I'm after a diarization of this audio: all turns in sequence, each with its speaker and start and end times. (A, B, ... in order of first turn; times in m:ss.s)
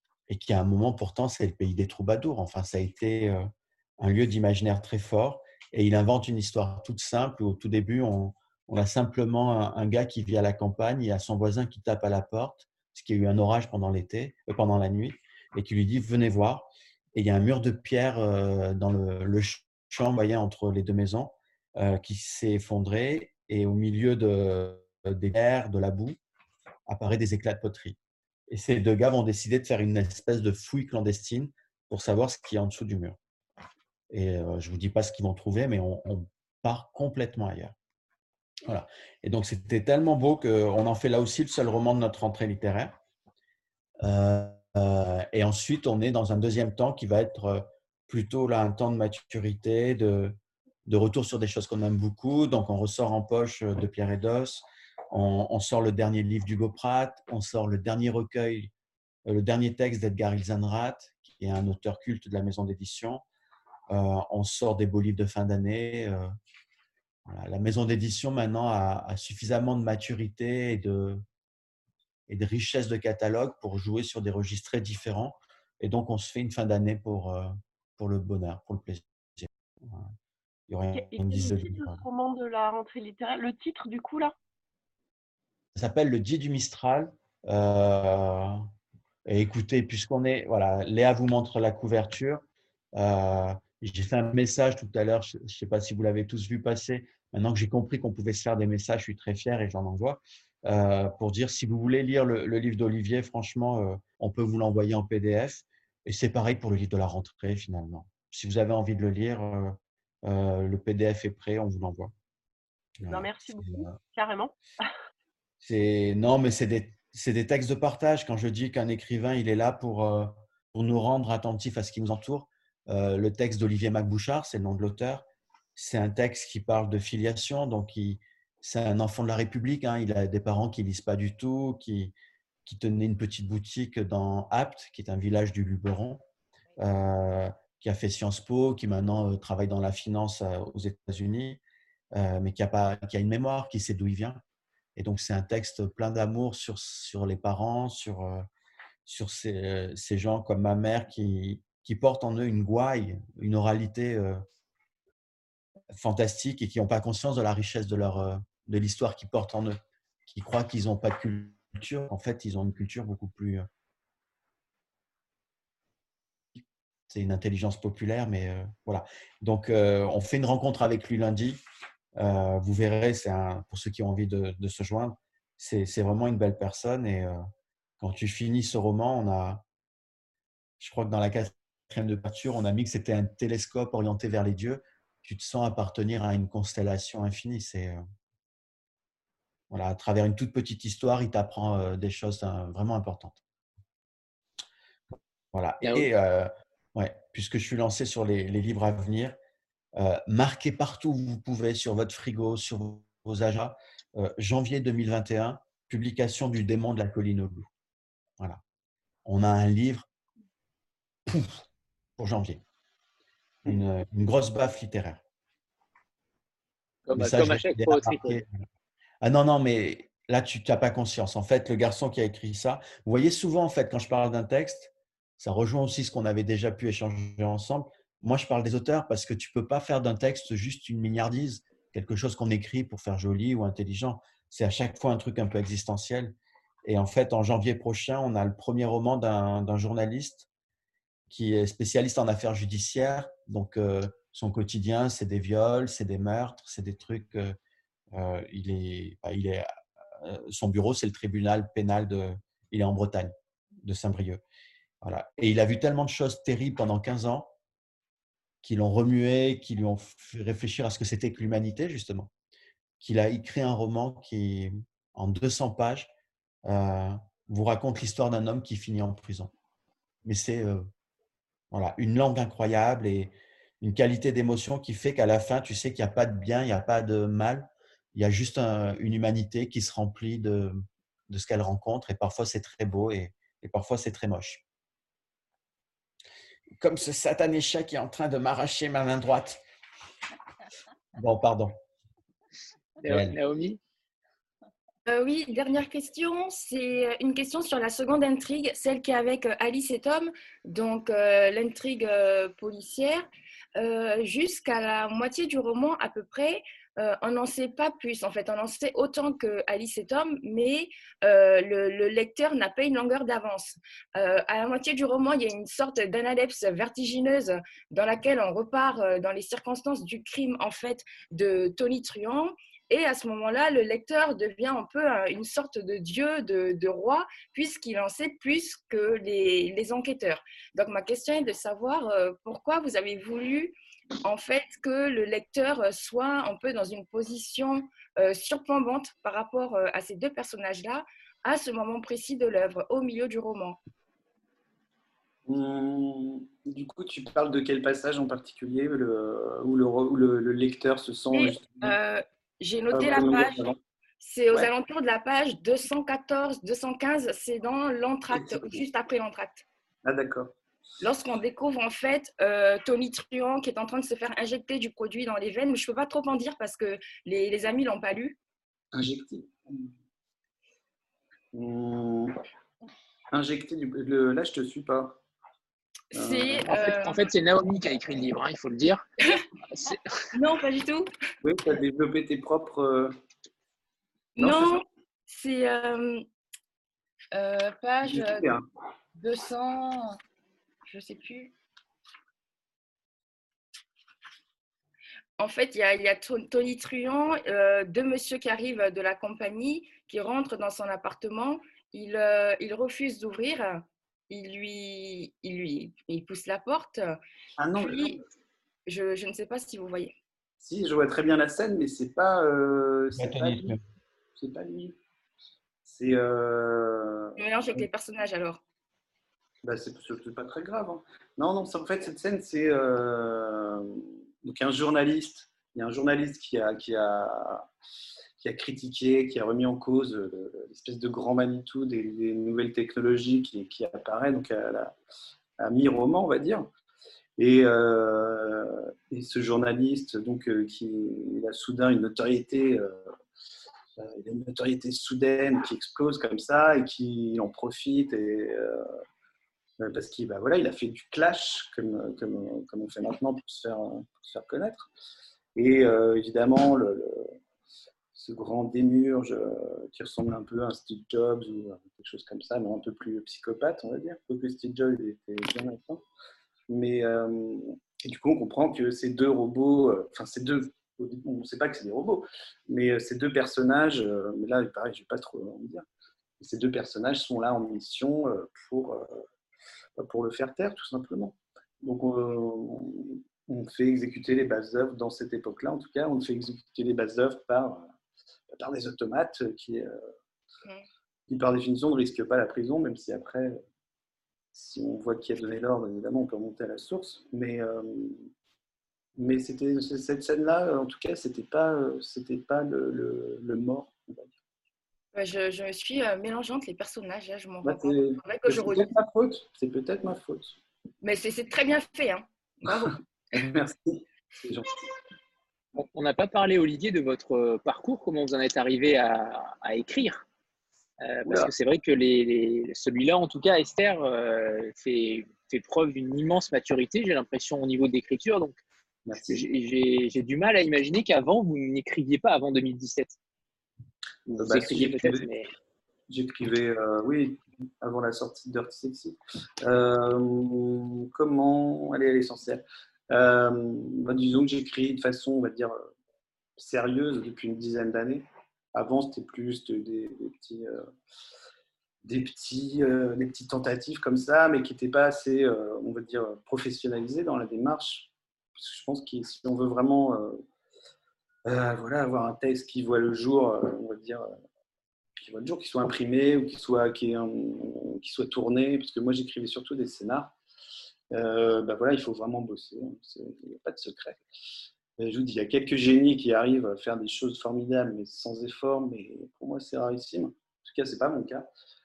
0:00.3-0:26.2 A
0:26.9-0:28.0 A
0:28.5-0:33.2 A
0:34.1-0:37.8 A
0:38.6-0:43.0 A
0:44.0-0:58.7 A
0:59.3-1:03.2 A
1:03.9-1:06.3 A
1:07.3-1:11.2 A
1:12.3-1:20.1 A
1:20.7-1:22.0 A
1:20.9-1:24.3 B
1:25.8-1:28.7 A
1:29.3-1:32.4 A
1:32.9-1:52.1 A
1:53.0-1:54.0 A
1:53.1-1:54.5 B
1:55.6-2:12.1 A
2:12.6-2:16.2 A
2:16.8-2:21.6 A
2:22.1-2:24.4 A
2:25.0-2:28.5 A
2:29.1-2:34.4 A
2:35.9-2:43.7 A
2:46.6-2:51.6 A
2:52.2-2:57.4 A
2:58.0-2:59.6 A
3:00.8-3:08.0 A
3:09.7-3:13.4 A
3:15.5-3:19.4 A
3:15.8-3:16.1 C
3:20.0-3:27.7 A
3:29.2-3:30.1 A
3:31.3-3:31.6 A
3:32.2-3:32.6 A
3:33.7-3:35.2 A
3:37.1-3:38.4 C
3:37.1-3:38.5 A
3:39.2-4:00.5 A
4:01.3-4:07.6 A
4:08.1-4:09.7 A
4:10.2-4:14.4 A
4:15.0-4:17.5 A
4:18.6-4:22.3 A
4:23.0-4:26.1 A
4:26.7-4:29.5 A
4:30.2-4:30.9 A
4:31.7-4:44.6 A
4:46.8-4:49.6 A
4:51.2-4:51.8 A
4:53.0-4:53.8 C
4:53.1-4:53.4 A
4:55.1-5:43.8 D
5:45.5-5:52.0 E
5:51.3-5:53.7 D
5:52.9-5:53.8 E
5:54.2-5:59.6 D
5:58.3-5:58.8 E
6:00.0-6:00.5 E
6:01.0-6:08.4 D
6:08.9-6:09.9 E
6:11.5-6:12.3 E
6:13.3-6:15.2 E
6:16.1-6:16.7 E
6:16.1-6:17.2 D
6:16.7-6:19.0 C
6:19.7-6:20.2 C
6:20.3-6:21.1 D
6:21.4-6:23.1 E
6:24.4-6:26.2 D
6:24.4-6:24.8 E
6:27.3-6:28.5 D
6:28.0-6:28.6 E
6:29.2-6:30.2 D
6:30.9-6:31.5 D
6:35.4-6:47.2 D
6:47.6-6:48.2 E
6:47.8-6:48.2 D
6:48.9-6:50.1 D
6:50.6-6:53.8 E
6:53.2-6:53.8 A
6:54.4-6:55.0 E
6:55.8-6:57.9 E
6:57.4-6:58.6 D
6:59.6-7:07.7 E
7:08.4-7:15.0 E
7:15.6-7:16.7 E
7:17.4-7:23.1 E
7:24.0-7:28.9 E
7:29.8-7:34.9 E
7:35.6-7:37.4 E
7:38.2-7:46.0 E
7:46.7-7:55.9 E
7:56.4-7:59.2 E
8:00.0-8:07.9 E
8:08.5-8:10.0 E
8:11.3-8:13.6 E
8:14.5-8:18.3 E
8:19.2-8:24.3 E
8:25.1-8:28.9 D
8:27.6-8:30.6 E
8:31.0-8:33.0 D
8:33.3-8:34.7 E
8:35.8-8:40.2 C
8:41.0-8:48.6 C
8:49.1-8:49.4 E
8:49.3-8:53.2 C
8:54.3-8:55.3 E
8:54.4-8:55.5 C
8:56.1-9:05.9 E
9:06.6-9:10.9 E
9:12.0-9:20.4 E
9:21.5-9:24.3 E
9:25.2-9:30.3 E
9:31.1-9:34.2 E
9:35.0-9:41.5 E